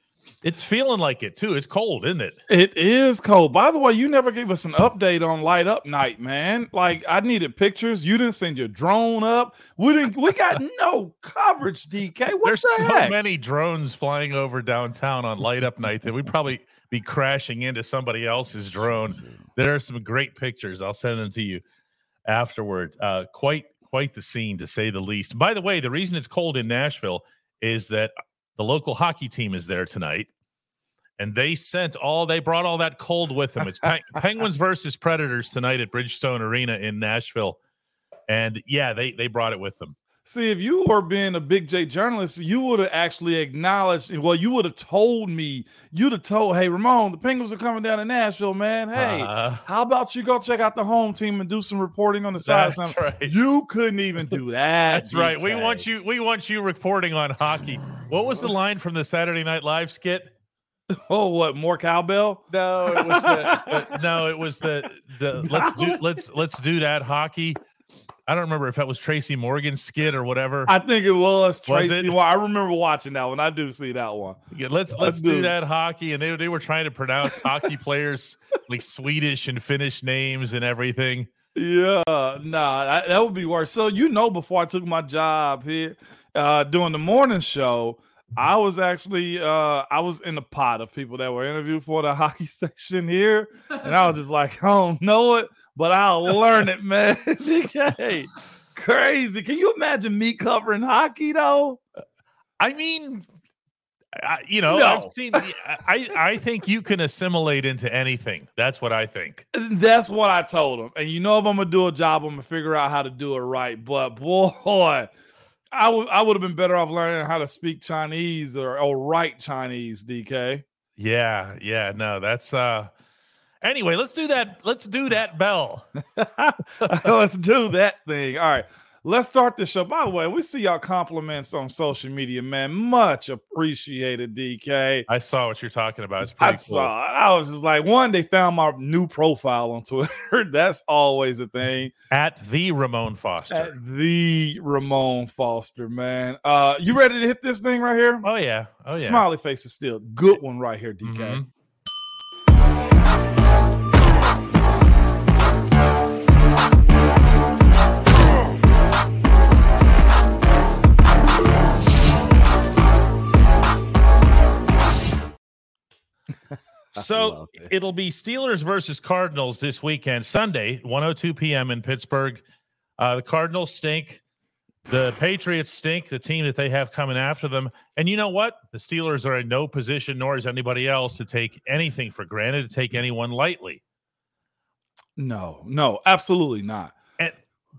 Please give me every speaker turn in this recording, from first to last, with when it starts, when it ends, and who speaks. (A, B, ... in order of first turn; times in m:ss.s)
0:00.4-0:02.4 A
0:02.5-0:13.1 B
0:12.4-0:21.6 A
0:22.3-0:30.3 A
0:31.2-0:37.6 A
0:38.3-0:40.0 A
0:40.2-0:55.8 B
0:48.9-0:49.6 A
0:52.4-0:53.3 A
0:54.9-1:00.3 A
1:00.9-1:04.0 B
1:02.5-1:07.6 A
1:05.4-1:06.0 B
1:08.3-1:10.7 A
1:10.6-1:14.4 B
1:11.6-1:12.1 A
1:14.5-1:21.3 A
1:15.0-1:15.5 B
1:21.5-1:41.8 B
1:42.6-1:43.3 A
1:44.1-1:49.4 A
1:44.7-1:45.4 B
1:49.5-1:55.1 B
1:55.7-2:00.6 B
2:01.0-2:02.9 A
2:03.6-2:05.8 A
2:06.1-2:15.0 B
2:15.1-2:16.9 A
2:16.4-2:21.9 B
2:22.1-2:23.7 A
2:23.5-2:28.2 B
2:28.2-2:29.2 A
2:28.9-2:31.4 B
2:31.0-2:31.5 A
2:46.9-2:52.4 A
2:47.0-2:47.7 B
2:53.0-2:54.2 A
2:54.9-3:03.8 A
3:05.2-3:06.9 B